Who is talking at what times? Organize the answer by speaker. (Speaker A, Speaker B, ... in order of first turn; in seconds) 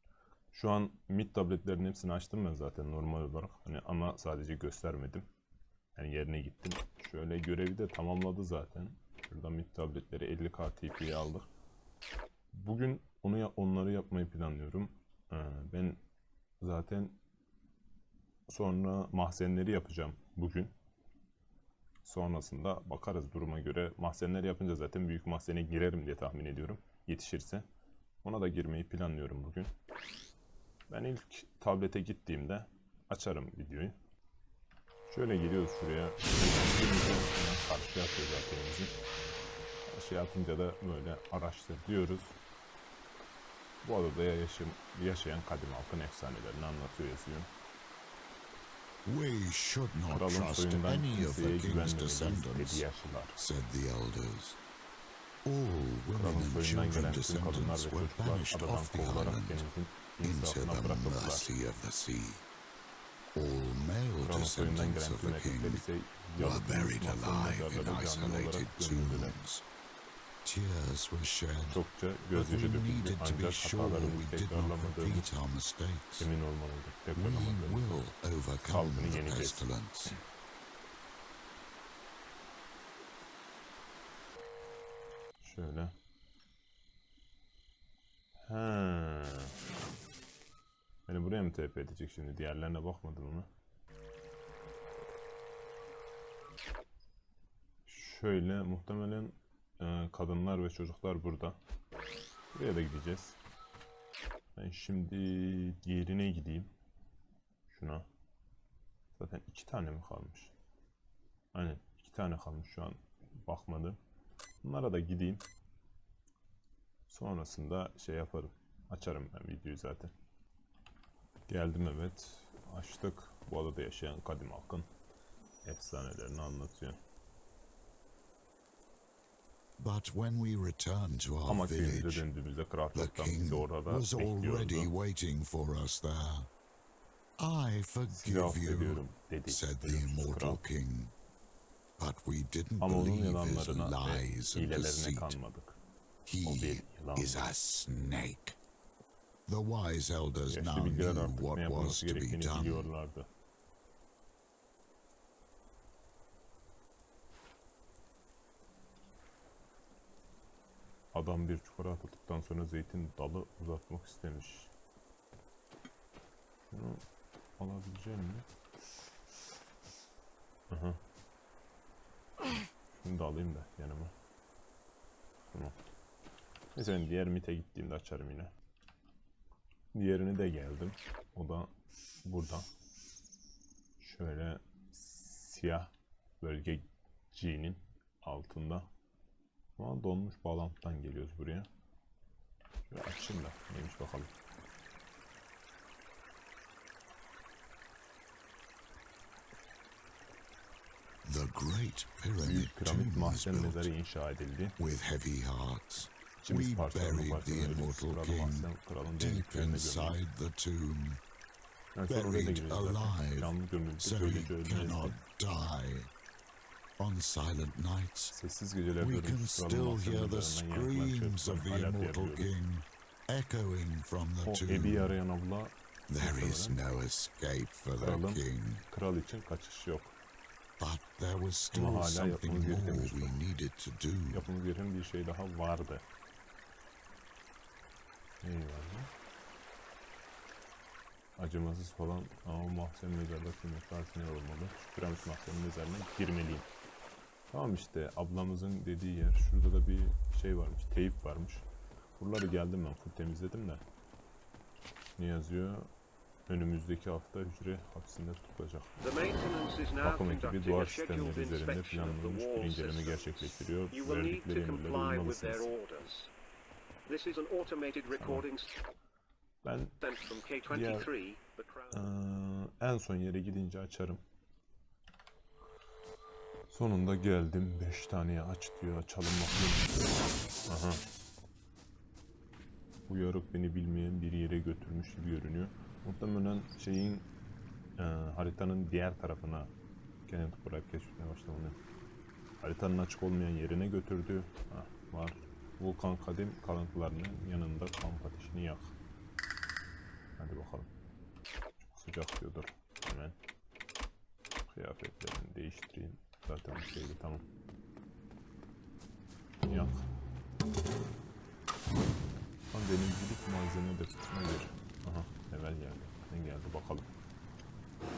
Speaker A: 0.5-5.2, 6.0-11.5, 12.5-16.0, 16.6-17.2, 18.5-20.7, 22.0-27.6, 28.2-29.7, 30.9-34.0, 35.1-38.9, 39.9-42.4, 43.8-47.5, 50.1-53.4, 56.1-61.5, 64.2-69.4, 71.7-75.3, 76.2-78.0, 78.6-80.1, 85.4-85.9, 88.5-89.5, 91.1-93.5, 97.8-101.6, 102.5-103.4, 104.5-106.7, 107.7-108.0, 109.2-110.5, 111.5-114.0, 114.6-115.4, 117.1-120.1, 121.5-124.9, 125.6-127.0, 131.4-134.9, 138.1-140.6, 142.8-145.8, 146.4-147.5, 150.5-153.3, 161.1-164.7, 166.7-167.0, 167.6-168.5, 170.7-171.0, 172.9-174.1, 176.7-178.5, 179.9-181.7, 182.2-182.7, 184.0-188.9, 189.8-191.7, 192.8-194.3, 202.4-204.8, 206.4-210.2, 211.9-215.2, 218.3-222.5, 224.4-226.8, 228.0-230.1, 231.7-233.4, 234.3-236.0, 238.4-239.1, 241.4-246.7, 247.5-251.7, 252.2-253.8, 255.2-255.9, 256.5-258.9, 260.0-265.7, 268.1-268.4, 269.6-269.9, 270.7-271.1, 271.9-274.2, 276.7-280.0, 280.7-281.0, 283.1-287.3, 288.0-289.7, 290.3-291.8, 292.6-298.9, 300.4-300.9, 301.8-303.4, 304.7-307.4, 309.6-310.1, 312.7-317.1
Speaker B: 49.0-52.9, 53.4-54.6, 55.4-59.7, 60.2-62.4, 63.3-65.8, 66.4-69.7, 70.4-71.8, 72.3-76.3, 77.1-80.2, 129.8-132.3, 132.9-136.5, 137.4-141.1, 142.0-145.4, 146.2-148.6, 149.5-152.9, 201.2-203.9, 204.8-211.2, 212.1-216.1, 217.0-218.3, 219.0-225.2, 226.1-228.8, 230.8-234.5
Speaker C: 259.0-266.3, 267.1-268.7, 270.0-272.1